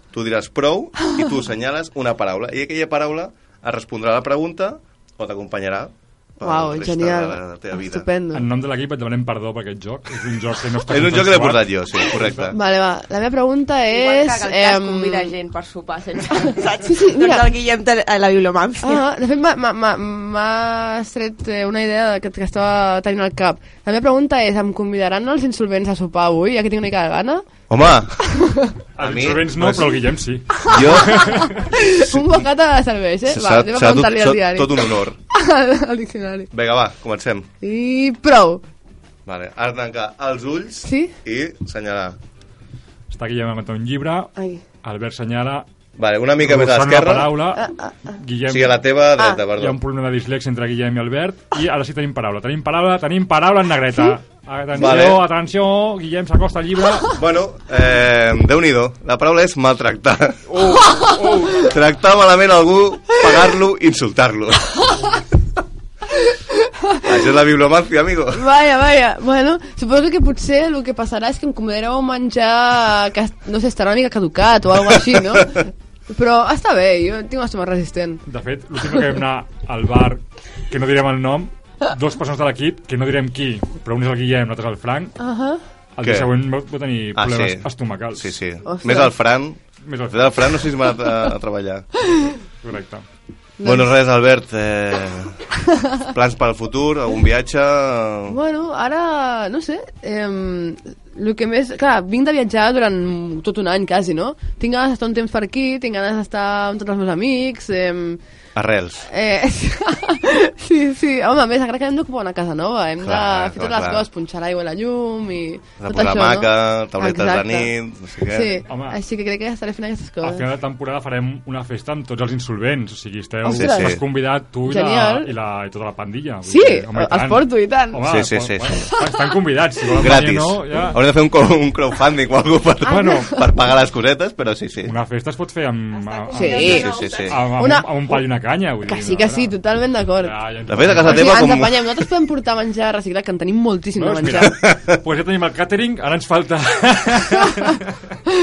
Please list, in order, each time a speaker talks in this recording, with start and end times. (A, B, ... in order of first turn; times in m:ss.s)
0:00.1-0:08.1 A
0:01.0-0:01.3 B
0:06.4-0:08.4 B
0:08.3-0:12.5 C
0:10.9-0:12.6 A
0:12.5-0:15.3 B
0:13.9-0:19.0 D
0:16.9-0:17.4 B
0:18.8-0:27.4 B
0:27.7-0:28.3 A
0:28.3-0:28.7 B
0:28.9-0:31.6 C
0:29.0-0:30.0 A
0:30.6-0:36.5 B
0:30.7-0:32.4 A
0:33.3-0:35.2 A
0:36.5-0:37.5 A
0:37.6-0:38.6 B
0:39.2-0:42.2 A
0:40.8-0:41.1 B
0:43.1-0:45.7 C
0:44.4-0:44.6 B
0:46.0-0:47.3 A
0:46.4-0:47.6 C
0:47.5-0:48.2 B
0:48.2-0:48.8 C
0:48.5-0:49.8 A
0:49.5-0:57.1 C
0:54.8-0:55.2 A
0:57.1-1:00.6 A
1:00.5-1:01.7 C
1:01.5-1:04.7 A
1:06.3-1:07.1 B
1:07.0-1:08.4 A
1:08.3-1:18.2 B
1:18.2-1:25.2 C
1:25.2-1:25.6 B
1:25.9-1:28.4 C
1:26.0-1:26.3 A
1:27.1-1:31.9 A
1:28.6-1:29.1 B
1:29.8-1:30.4 C
1:32.6-1:33.0 C
1:33.6-1:33.9 B
1:33.6-1:35.4 A
1:36.0-1:38.4 A
1:38.3-1:48.2 B
1:48.5-1:49.1 A
1:49.1-1:57.7 B
1:53.0-1:54.0 A
1:55.8-1:58.6 A
1:58.2-2:00.4 B
1:58.6-1:59.0 C
2:00.2-2:11.0 C
2:03.4-2:04.0 B
2:03.5-2:04.0 A
2:04.6-2:05.3 B
2:06.5-2:08.1 B
2:08.0-2:08.9 A
2:08.9-2:09.2 B
2:10.0-2:14.9 A
2:12.8-2:13.3 C
2:12.9-2:13.5 B
2:14.8-2:19.5 C
2:16.0-2:17.4 D
2:16.4-2:16.9 B
2:16.6-2:17.5 A
2:17.5-2:18.2 B
2:18.8-2:20.3 B
2:20.2-2:21.4 C
2:20.7-2:22.1 A
2:20.9-2:24.6 B
2:24.0-2:27.8 C
2:24.4-2:25.0 A